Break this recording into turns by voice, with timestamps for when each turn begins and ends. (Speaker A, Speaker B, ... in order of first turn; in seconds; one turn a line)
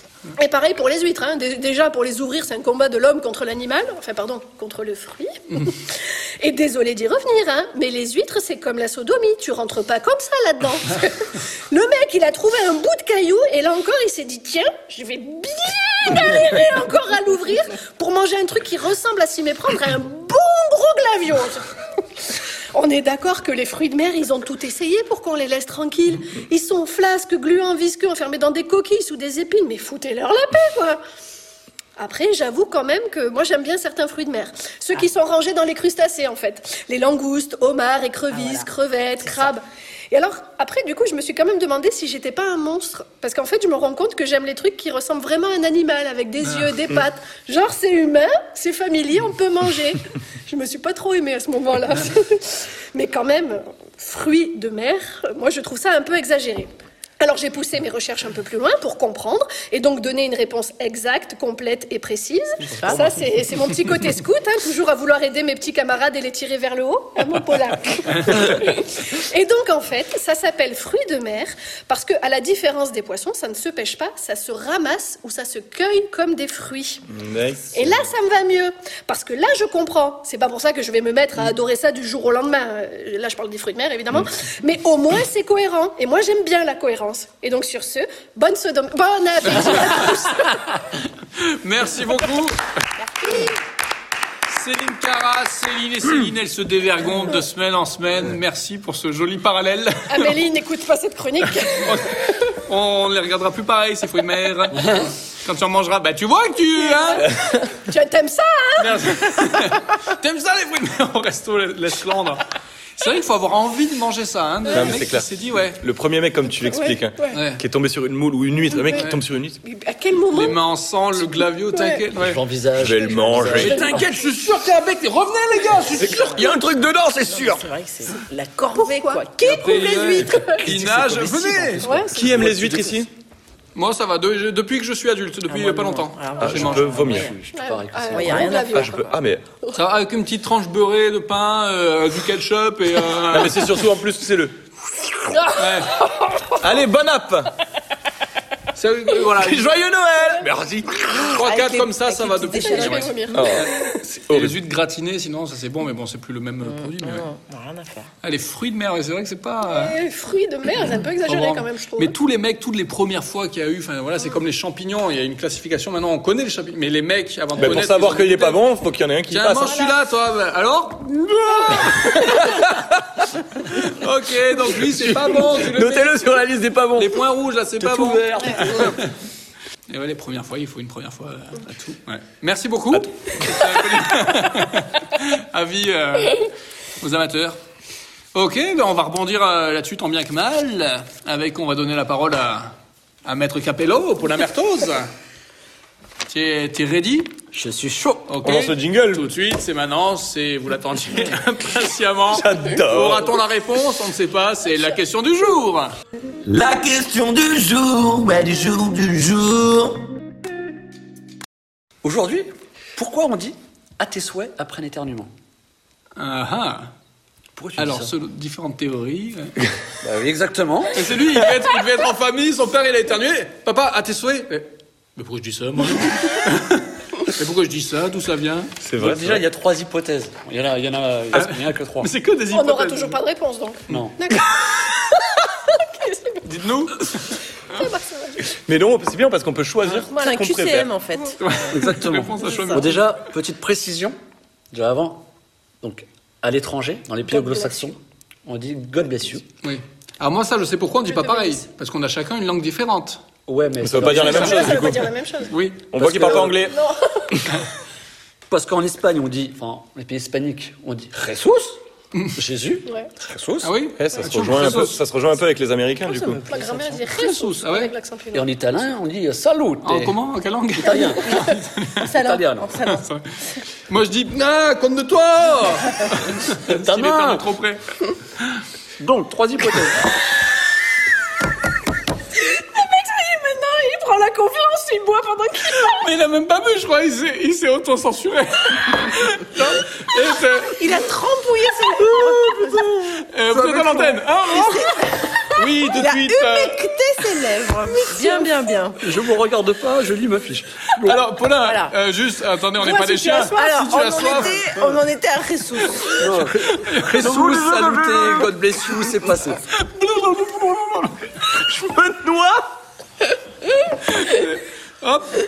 Speaker A: 0.4-21.7
Speaker A: 22.7-31.0
Speaker A: 32.0-77.0
Speaker B: 38.3-38.6
Speaker B: 62.8-63.0
Speaker C: 77.1-77.8
Speaker A: 77.7-90.6
Speaker D: 89.6-90.2
Speaker D: 91.4-92.6
Speaker D: 94.5-100.4
Speaker A: 100.1-102.3
Speaker D: 101.8-107.3
Speaker E: 104.8-105.1
Speaker A: 106.9-109.7
Speaker D: 108.8-112.4
Speaker D: 113.0-115.8
Speaker C: 114.7-119.6
Speaker A: 116.7-117.4
Speaker D: 117.3-117.6
Speaker A: 118.7-119.1
Speaker D: 118.9-119.2
Speaker A: 119.6-120.6
Speaker D: 120.3-122.4
Speaker A: 121.4-122.0
Speaker E: 122.1-124.0
Speaker C: 122.7-123.9
Speaker D: 123.4-126.5
Speaker B: 126.0-126.6
Speaker C: 126.0-127.7
Speaker B: 127.2-130.7
Speaker A: 128.7-130.6
Speaker D: 129.4-131.9
Speaker C: 130.7-131.4
Speaker E: 131.2-132.9
Speaker A: 131.8-132.3
Speaker C: 132.1-133.1
Speaker D: 133.7-136.9
Speaker B: 135.5-137.3
Speaker C: 136.4-137.4
Speaker E: 136.8-138.6
Speaker A: 137.5-139.1
Speaker B: 138.1-139.0
Speaker C: 138.7-139.4
Speaker D: 139.7-143.7
Speaker C: 143.3-144.6
Speaker A: 145.5-146.4
Speaker D: 145.6-146.0
Speaker C: 146.6-147.5
Speaker D: 148.7-149.8
Speaker C: 149.3-151.3
Speaker B: 151.1-153.4
Speaker D: 151.2-157.3
Speaker A: 152.6-153.9
Speaker C: 153.3-154.6
Speaker B: 156.6-158.1
Speaker D: 158.2-159.9
Speaker A: 159.7-162.1
Speaker D: 161.2-168.6
Speaker C: 167.6-169.8
Speaker D: 169.3-171.9
Speaker A: 169.6-169.9
Speaker A: 171.4-171.9
Speaker C: 171.7-172.9
Speaker D: 173.7-176.3
Speaker C: 174.8-177.2
Speaker D: 176.9-179.1
Speaker E: 177.8-179.0
Speaker D: 179.9-187.6
Speaker C: 182.9-183.7
Speaker D: 188.3-192.7
Speaker D: 193.2-195.1
Speaker D: 196.3-197.3
Speaker E: 197.5-198.3
Speaker D: 198.3-205.9
Speaker C: 198.4-199.3
Speaker C: 202.3-203.3
Speaker F: 206.4-210.1
Speaker E: 212.0-215.3
Speaker D: 216.2-216.9
Speaker E: 217.6-218.1
Speaker D: 217.8-219.6
Speaker E: 220.0-221.1
Speaker D: 220.9-228.7
Speaker C: 228.8-229.4
Speaker E: 229.0-232.1
Speaker D: 231.3-233.2
Speaker A: 232.5-236.4
Speaker E: 233.9-234.2
Speaker D: 236.4-237.3
Speaker A: 237.7-238.5
Speaker C: 238.7-240.9
Speaker B: 240.1-241.7
Speaker D: 241.4-243.0
Speaker E: 241.7-244.1
Speaker B: 242.4-242.8
Speaker E: 244.7-245.2
Speaker E: 245.8-249.4
Speaker A: 247.3-247.9
Speaker D: 249.6-253.2
Speaker A: 251.1-251.6
Speaker E: 253.5-254.9
Speaker C: 253.8-255.1
Speaker A: 254.0-255.6
Speaker D: 255.5-255.8
Speaker C: 255.9-256.8
Speaker E: 255.9-256.6
Speaker A: 256.4-257.4
Speaker E: 258.5-261.8
Speaker E: 262.3-263.8
Speaker A: 262.9-263.1
Speaker D: 263.6-265.0
Speaker C: 263.9-266.4
Speaker B: 266.1-267.0
Speaker A: 266.4-268.5
Speaker D: 267.2-267.9
Speaker E: 268.3-270.1
Speaker D: 269.8-272.0
Speaker E: 270.8-272.8
Speaker B: 270.9-273.1
Speaker D: 272.8-273.3
Speaker D: 273.9-277.8
Speaker E: 276.6-277.4
Speaker E: 279.0-280.0
Speaker A: 282.4-286.0
Speaker D: 285.7-291.0
Speaker B: 290.8-293.2
Speaker D: 292.2-296.9
Speaker E: 293.5-294.1
Speaker B: 294.0-299.0
Speaker A: 297.9-298.5
Speaker E: 299.0-301.2
Speaker D: 301.0-304.6
Speaker B: 301.6-301.9
Speaker A: 302.8-304.5
Speaker B: 303.5-306.4
Speaker E: 306.1-309.6
Speaker D: 306.7-308.4
Speaker D: 309.7-311.3
Speaker C: 311.8-312.6
Speaker D: 314.1-315.4